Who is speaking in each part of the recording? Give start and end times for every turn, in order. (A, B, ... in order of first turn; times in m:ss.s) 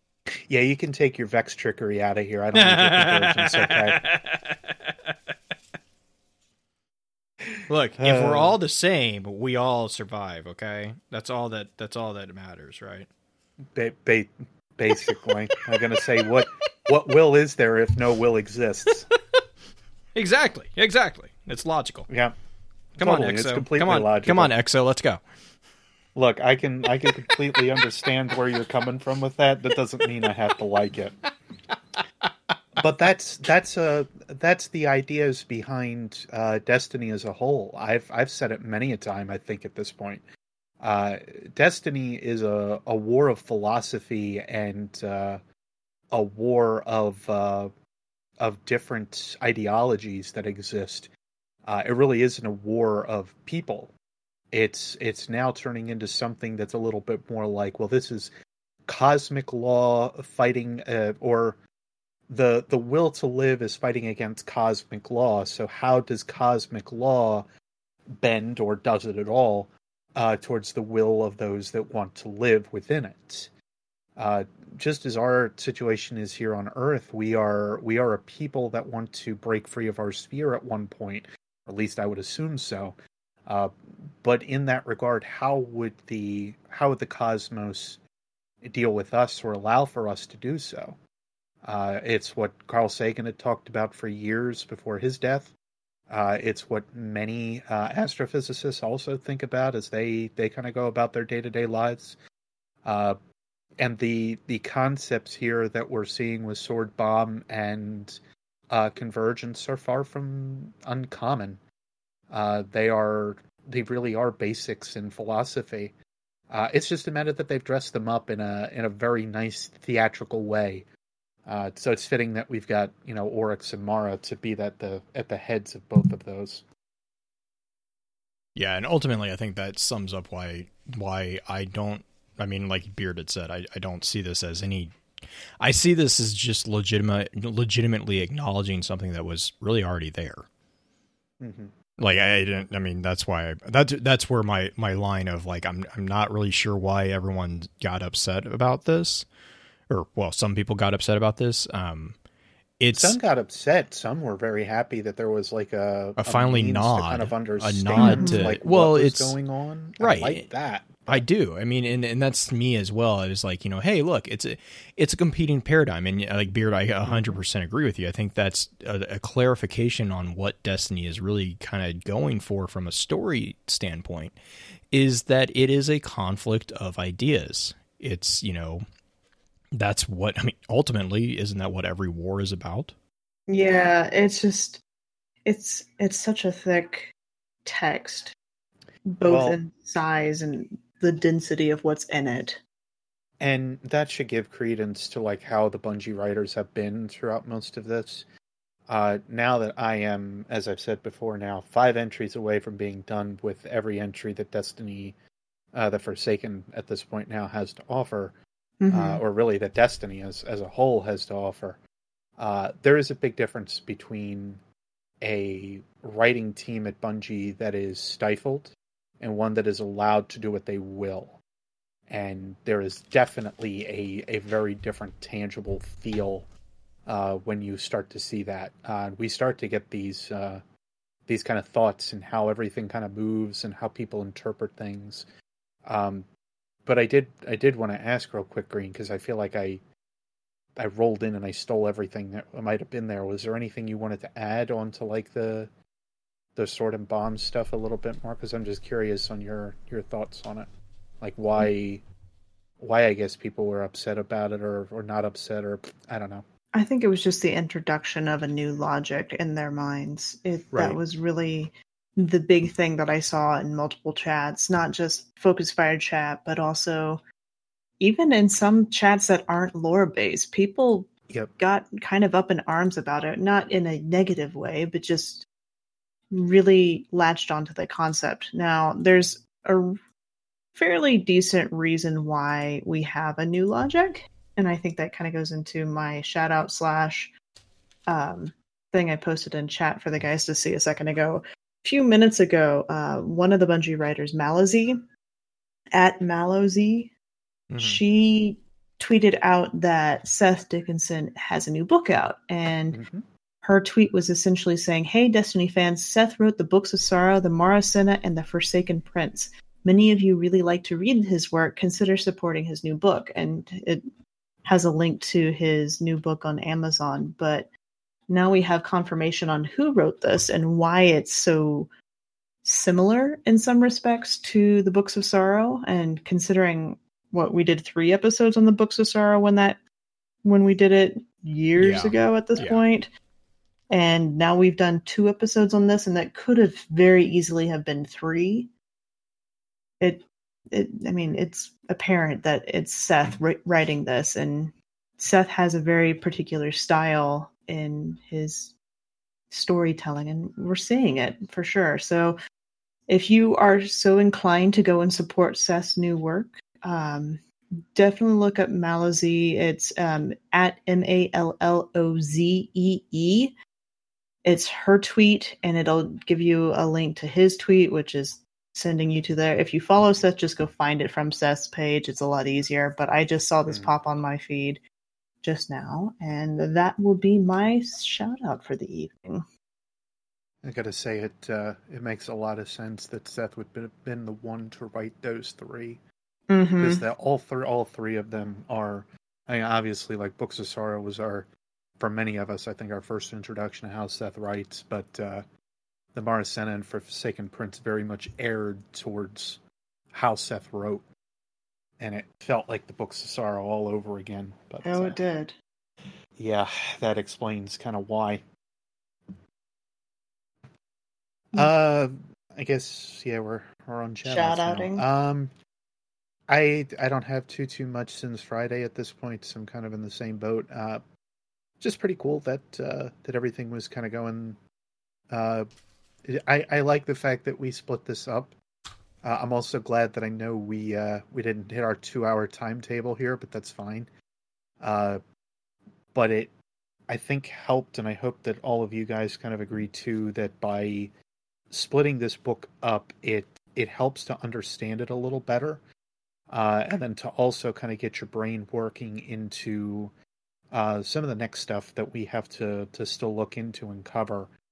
0:00.3-0:04.0 A
0:02.5-0:04.9 B
0:07.7-0:13.1 B
0:08.0-0:08.6 A
0:13.7-0:19.1 A
0:15.6-0:16.2 B
0:20.2-0:22.1 B
0:22.1-0:22.3 A
0:23.0-0:24.5 A
0:23.0-0:25.2 B
0:26.1-0:31.2 A
0:27.1-0:27.8 B
0:32.8-0:40.2 A
0:40.8-0:45.4 A
0:46.1-0:47.7 A
0:48.4-0:51.1 A
0:51.6-0:53.9 A
0:54.5-0:58.3 A
0:58.8-1:01.6 A
1:02.3-1:07.5 A
1:08.1-1:13.5 A
1:14.2-1:28.0 A
1:28.6-1:31.0 A
1:31.6-1:35.5 A
1:36.1-1:42.2 A
1:42.8-1:43.2 A
1:43.8-1:51.6 A
1:52.3-1:55.9 A
1:56.5-2:00.8 A
2:01.4-2:06.6 A
2:08.6-2:15.0 B
2:15.6-2:20.5 B
2:21.4-2:21.7 A
2:22.0-2:29.3 B
2:29.9-2:32.2 B
2:32.8-2:33.2 B
2:32.9-2:41.2 A
2:36.2-2:39.4 B
2:38.0-2:38.4 C
2:40.0-2:40.5 B
2:41.1-2:54.4 B
2:47.0-2:47.4 A
2:54.9-2:58.8 B
2:59.7-3:02.9 B
3:03.5-3:04.8 C
3:05.4-3:07.1 C
3:07.6-3:08.3 C
3:09.1-3:12.6 C
3:09.2-3:09.6 A
3:13.4-3:18.3 A
3:18.9-3:25.2 A
3:25.7-3:28.4 A
3:28.8-3:29.2 C
3:28.9-3:31.8 A
3:32.4-3:34.6 A
3:35.2-3:41.4 A
3:42.1-3:46.5 A
3:47.0-3:50.6 A
3:51.3-3:55.2 A
3:55.8-3:56.3 A
3:56.8-3:59.8 A
4:00.8-4:05.7 A
4:06.6-4:10.7 A
4:11.2-4:12.0 A
4:12.8-4:16.4 A
4:16.7-4:27.2 C
4:20.7-4:21.0 B
4:28.0-4:35.4 C
4:36.3-4:40.0 C
4:40.7-4:47.3 C
4:48.1-4:55.0 C
4:55.9-4:57.1 C
4:57.7-4:58.0 B
4:57.8-5:03.0 C
5:02.9-5:03.2 A
5:03.6-5:14.0 C
5:14.6-5:17.7 C
5:18.3-5:21.9 C
5:22.6-5:29.8 C
5:30.4-5:33.1 C
5:31.8-5:32.8 B
5:33.9-5:38.7 C
5:40.0-5:48.7 C
5:49.5-5:52.4 C
5:53.1-5:57.4 C
5:57.9-6:03.5 C
6:04.4-6:14.8 C
6:15.4-6:19.4 C
6:20.6-6:26.0 A
6:26.5-6:27.0 C
6:26.8-6:31.5 A
6:32.0-6:35.4 A
6:36.1-6:39.6 A
6:40.1-6:41.1 A
6:42.0-6:45.2 A
6:44.8-6:45.5 C
6:46.4-6:48.4 A
6:51.5-6:55.5 A
6:54.2-6:55.0 C
6:56.5-7:01.0 A
7:01.8-7:04.6 A
7:05.3-7:05.6 A
7:06.2-7:08.5 A
7:09.2-7:14.1 A
7:14.8-7:15.2 A
7:16.1-7:16.5 A
7:17.1-7:21.1 A
7:21.7-7:25.8 A
7:26.5-7:30.1 A
7:30.7-7:34.5 A